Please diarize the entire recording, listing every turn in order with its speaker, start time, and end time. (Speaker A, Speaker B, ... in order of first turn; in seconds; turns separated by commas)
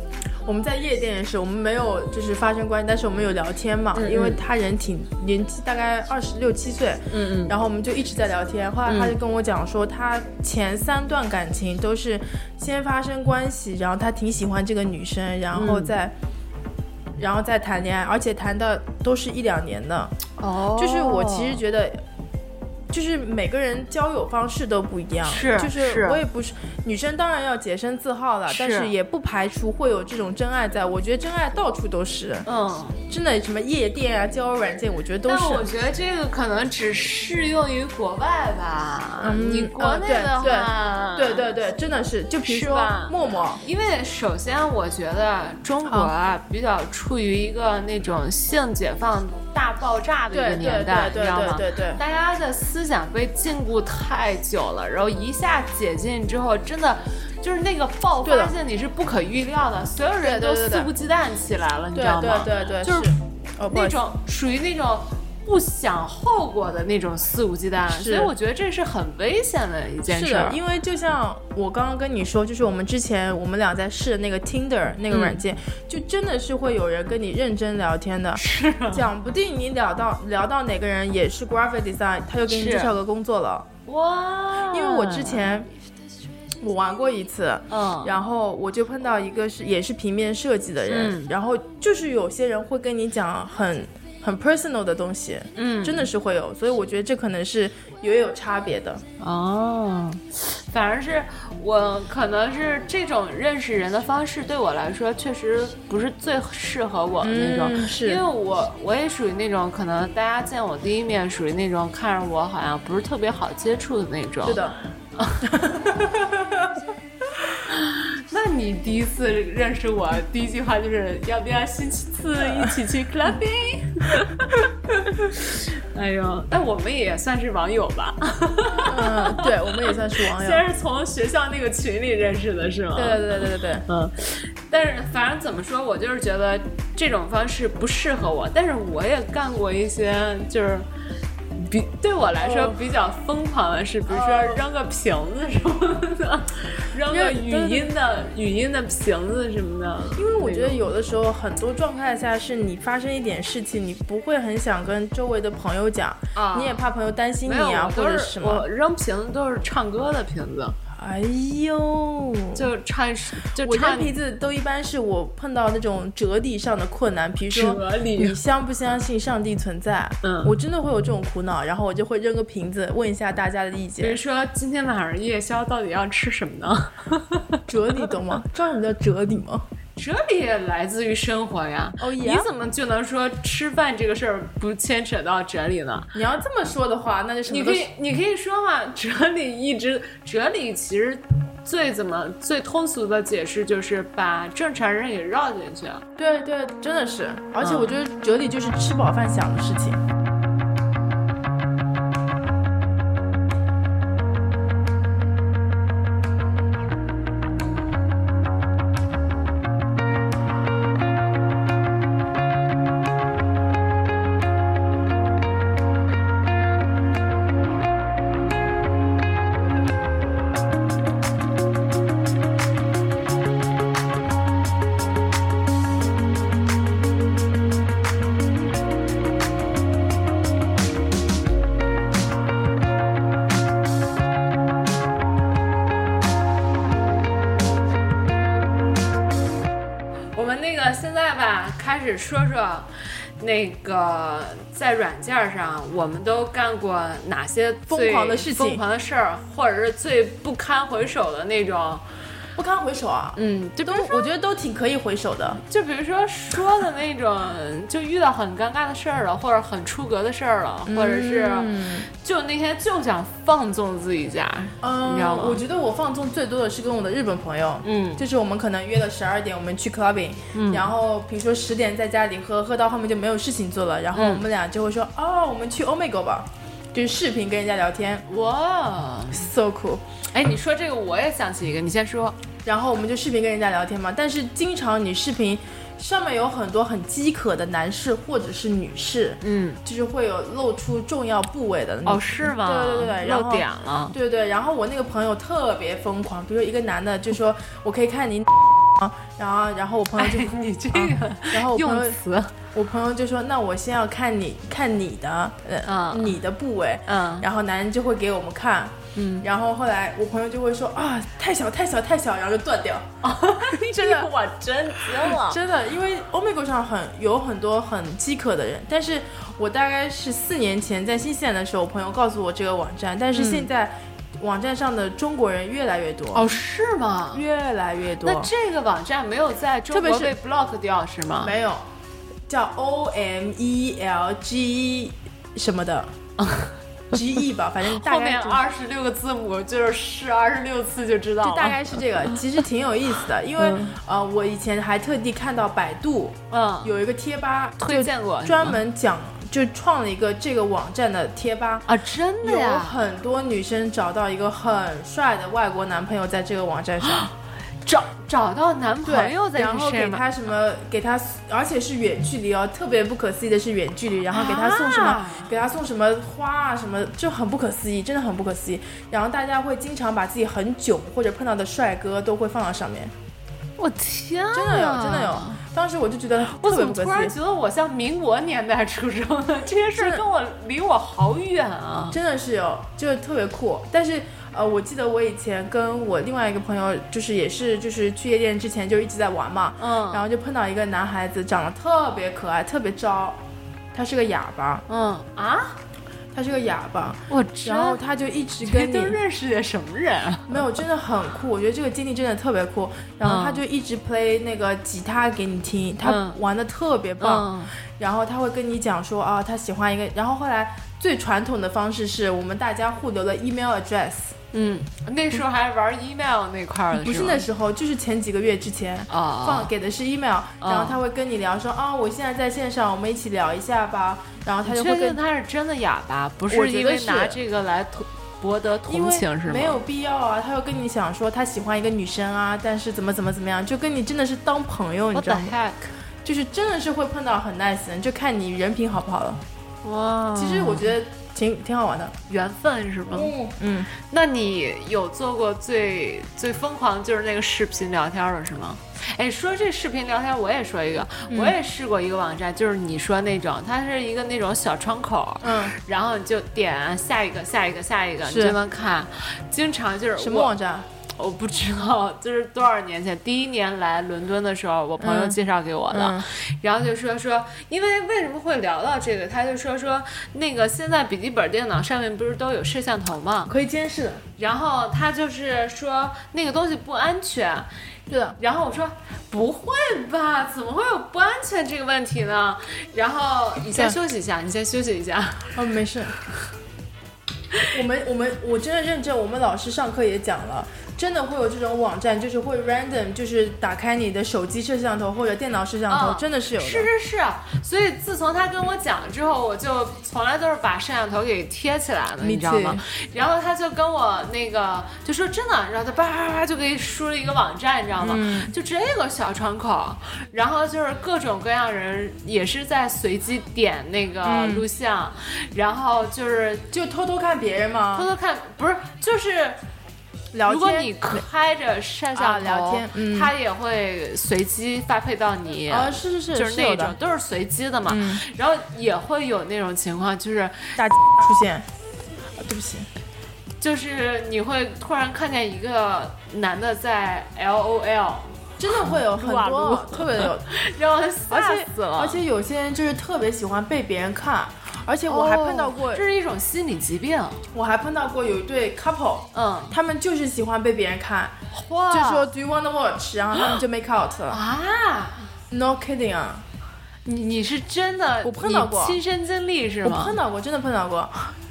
Speaker A: 0.4-16.1, Speaker B: 4.0-4.4, Speaker B: 7.1-7.5, Speaker B: 8.9-9.2, Speaker B: 15.5-15.9, Speaker A: 17.2-20.1, Speaker B: 20.4-21.6, Speaker A: 20.8-22.0, Speaker A: 22.9-32.5, Speaker B: 25.2-26.2, Speaker B: 28.5-28.9, Speaker B: 32.5-33.0, Speaker A: 33.1-35.7, Speaker B: 35.3-41.5, Speaker A: 39.2-43.6, Speaker B: 42.5-63.1, Speaker A: 45.9-46.1, Speaker A: 50.3-52.0, Speaker A: 58.2-58.5, Speaker A: 60.2-60.9, Speaker A: 61.9-64.0, Speaker B: 63.7-70.6, Speaker A: 67.9-68.3, Speaker A: 70.1-83.7, Speaker B: 75.1-75.4, Speaker B: 78.4-79.0, Speaker B: 82.5-82.9, Speaker B: 83.9-85.5, Speaker A: 84.7-85.7, Speaker A: 86.6-99.0, Speaker B: 87.7-88.2, Speaker B: 90.9-91.3, Speaker B: 95.6-96.1, Speaker B: 99.2-114.6, Speaker A: 107.2-108.2, Speaker A: 114.4-114.8, Speaker B: 115.2-115.5, Speaker A: 115.5-116.7, Speaker B: 117.7-133.2, Speaker A: 122.4-122.7, Speaker A: 128.9-130.6, Speaker A: 132.9-133.9, Speaker B: 133.9-140.9, Speaker B: 141.6-150.8, Speaker A: 142.4-142.8, Speaker A: 144.1-144.6, Speaker A: 147.1-147.9, Speaker A: 150.2-158.7, Speaker B: 156.3-156.8, Speaker B: 157.4-160.8, Speaker A: 161.0-162.7, Speaker B: 162.6-164.2, Speaker A: 163.6-174.2, Speaker B: 167.5-168.4, Speaker B: 170.2-170.5, Speaker B: 174.0-178.0, Speaker A: 177.7-179.7, Speaker B: 180.0-186.1, Speaker A: 182.0-182.5, Speaker A: 186.1-187.9, Speaker B: 187.5-196.0, Speaker A: 196.2-200.0, Speaker B: 197.6-198.0, Speaker B: 240.3-252.0, Speaker A: 247.9-248.8, Speaker A: 252.6-255.6, Speaker B: 253.4-254.3, Speaker B: 255.7-265.6, Speaker A: 260.9-262.1, Speaker A: 264.8-278.2, Speaker B: 267.8-268.2, Speaker B: 270.5-270.9, Speaker B: 274.1-274.4, Speaker B: 278.3-279.5, Speaker A: 279.3-280.0, Speaker B: 280.3-282.4, Speaker A: 282.6-302.2, Speaker B: 289.4-289.8, Speaker B: 292.1-294.2, Speaker B: 300.2-302.5, Speaker A: 302.7-314.3, Speaker B: 305.9-306.4, Speaker B: 307.1-307.5, Speaker B: 309.1-309.5, Speaker B: 313.2-315.6, Speaker A: 315.0-326.6, Speaker B: 323.3-323.7, Speaker B: 326.3-327.4, Speaker A: 327.3-328.5, Speaker B: 328.2-331.5, Speaker A: 329.9-330.4, Speaker A: 331.4-331.8, Speaker A: 332.5-336.1, Speaker B: 336.4-336.7, Speaker A: 337.1-338.6, Speaker B: 337.9-341.8, Speaker A: 341.4-351.9, Speaker B: 343.6-343.9, Speaker B: 346.5-346.9, Speaker B: 347.8-348.8, Speaker B: 351.9-353.0, Speaker A: 352.4-357.3, Speaker B: 357.0-357.3, Speaker B: 357.9-360.2, Speaker A: 359.0-373.1, Speaker B: 364.3-365.5, Speaker B: 373.8-375.6, Speaker A: 374.5-377.4, Speaker B: 376.5-382.2, Speaker A: 379.9-380.2, Speaker A: 382.1-393.4, Speaker B: 389.8-390.2, Speaker A: 393.9-394.8, Speaker B: 394.9-395.8, Speaker A: 396.3-399.2, Speaker B: 397.3-398.0, Speaker B: 398.6-400.6, Speaker A: 400.5-414.4, Speaker B: 403.2-403.6, Speaker B: 406.0-406.4, Speaker B: 407.2-407.7, Speaker B: 414.5-417.4, Speaker A: 416.9-425.2, Speaker B: 419.1-419.7, Speaker B: 420.6-421.0, Speaker B: 424.6-429.8, Speaker A: 426.5-427.4, Speaker A: 428.9-435.6, Speaker B: 435.1-435.9, Speaker A: 436.2-439.4, Speaker B: 439.8-440.9, Speaker A: 440.4-442.1, Speaker B: 442.3-443.3, Speaker A: 443.1-443.9, Speaker B: 443.9-460.5, Speaker A: 451.3-451.6, Speaker A: 455.4-455.8, Speaker A: 458.2-458.6, Speaker A: 460.2-460.9, Speaker B: 461.2-473.5, Speaker A: 465.0-465.4, Speaker A: 465.9-466.3, Speaker A: 473.5-474.2, Speaker B: 474.4-477.7, Speaker A: 478.1-478.4, Speaker B: 478.4-485.6, Speaker A: 483.7-484.0, Speaker A: 485.5-486.1, Speaker A: 487.7-496.9, Speaker B: 495.9-516.6, Speaker A: 502.2-502.8, Speaker A: 508.0-508.5, Speaker A: 514.2-514.7, Speaker A: 516.7-518.1, Speaker B: 518.0-519.6, Speaker A: 520.3-521.2, Speaker B: 520.5-530.8, Speaker A: 522.1-523.3, Speaker A: 525.7-527.0, Speaker A: 527.9-528.2, Speaker A: 530.8-531.7, Speaker A: 532.4-532.9, Speaker B: 533.6-542.2, Speaker A: 538.6-540.5, Speaker A: 541.3-546.0, Speaker B: 545.1-547.4, Speaker A: 547.5-551.4, Speaker B: 549.3-549.8, Speaker B: 551.5-552.3, Speaker A: 551.9-554.4, Speaker B: 554.3-555.3, Speaker A: 555.5-556.5, Speaker B: 557.1-560.2, Speaker A: 558.2-559.0, Speaker A: 559.8-561.3